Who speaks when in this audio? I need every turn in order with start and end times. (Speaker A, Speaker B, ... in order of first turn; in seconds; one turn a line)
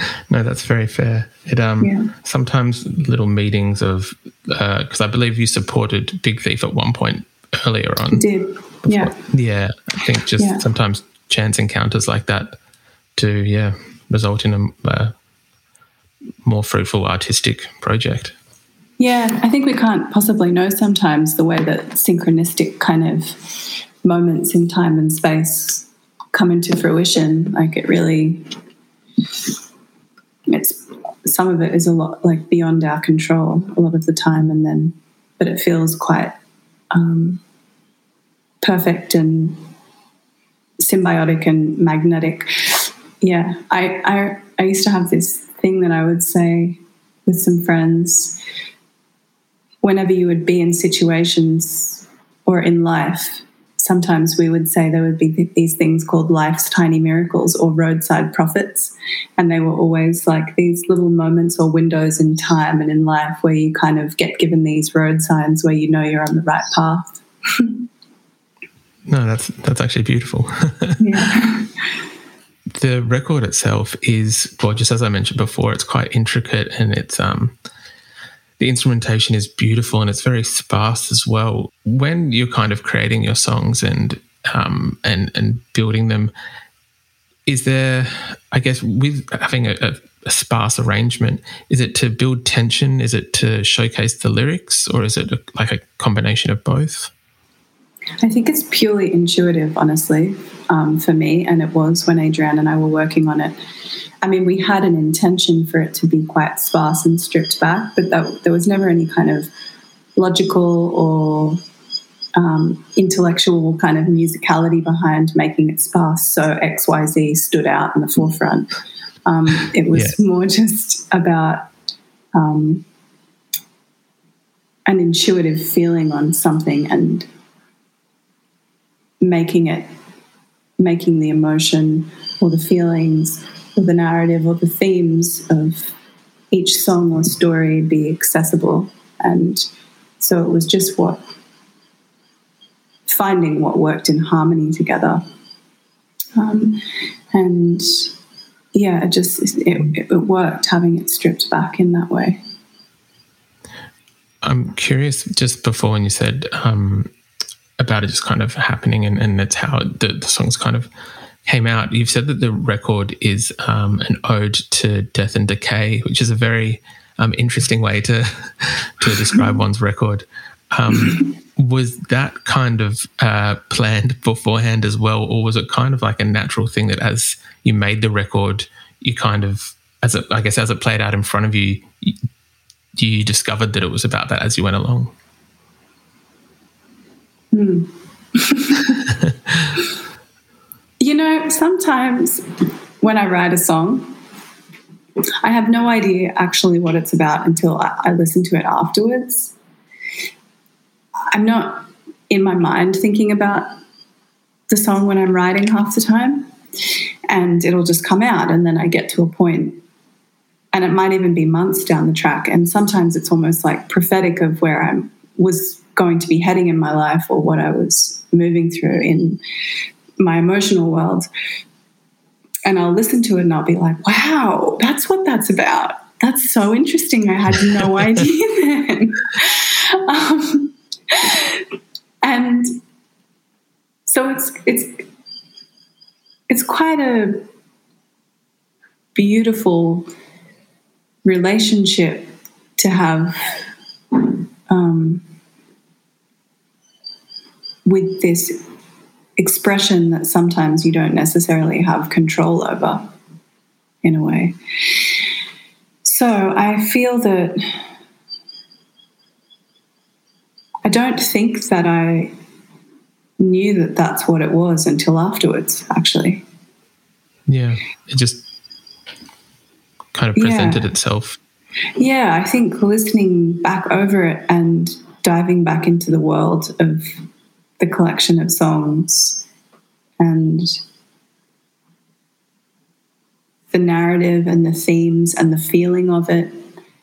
Speaker A: 0.3-8.3
Speaker B: 1.8-2.1
Speaker B: 8.1-9.1
Speaker A: 8.8-12.6
Speaker B: 10.4-10.6
Speaker A: 13.2-15.1
Speaker A: 16.4-18.3
Speaker B: 19.0-28.5
Speaker B: 30.5-36.3
Speaker B: 36.9-37.4
Speaker B: 38.6-39.6
Speaker B: 40.8-48.4
Speaker B: 49.8-67.7
Speaker A: 69.1-71.0
Speaker B: 71.0-71.7
Speaker A: 72.7-77.5
Speaker A: 78.6-86.3
Speaker A: 87.5-97.1
Speaker B: 98.2-103.5
Speaker B: 104.2-109.5
Speaker B: 110.2-111.6
Speaker B: 112.3-118.7
Speaker B: 119.2-121.7
Speaker B: 122.3-122.8
Speaker B: 124.8-127.3
Speaker B: 129.2-129.9
Speaker B: 130.8-135.9
Speaker B: 136.5-139.7
Speaker B: 140.2-141.2
Speaker B: 143.1-145.2
Speaker B: 146.3-148.1
Speaker B: 148.7-152.4
Speaker A: 154.4-157.1
Speaker A: 157.8-160.9
Speaker A: 161.4-182.2
Speaker A: 182.9-185.1
Speaker B: 187.5-189.0
Speaker B: 191.0-192.4
Speaker B: 193.0-194.1
Speaker B: 195.4-199.5
Speaker B: 201.3-203.8
Speaker B: 204.7-206.5
Speaker B: 207.3-209.8
Speaker B: 210.7-219.4
Speaker B: 220.2-221.3
Speaker B: 222.7-231.6
Speaker B: 232.2-232.8
Speaker B: 234.1-235.0
Speaker B: 236.5-237.4
Speaker B: 239.1-240.1
Speaker B: 241.2-243.7
Speaker B: 244.7-245.2
Speaker B: 247.8-248.6
Speaker B: 249.4-253.1
Speaker B: 254.0-255.1
Speaker B: 256.0-257.8
Speaker B: 260.8-262.3
Speaker B: 263.4-266.4
Speaker A: 267.5-268.5
Speaker A: 270.1-271.4
Speaker B: 270.4-270.8
Speaker B: 272.0-277.2
Speaker B: 277.8-279.4
Speaker B: 280.2-280.8
Speaker B: 283.7-286.6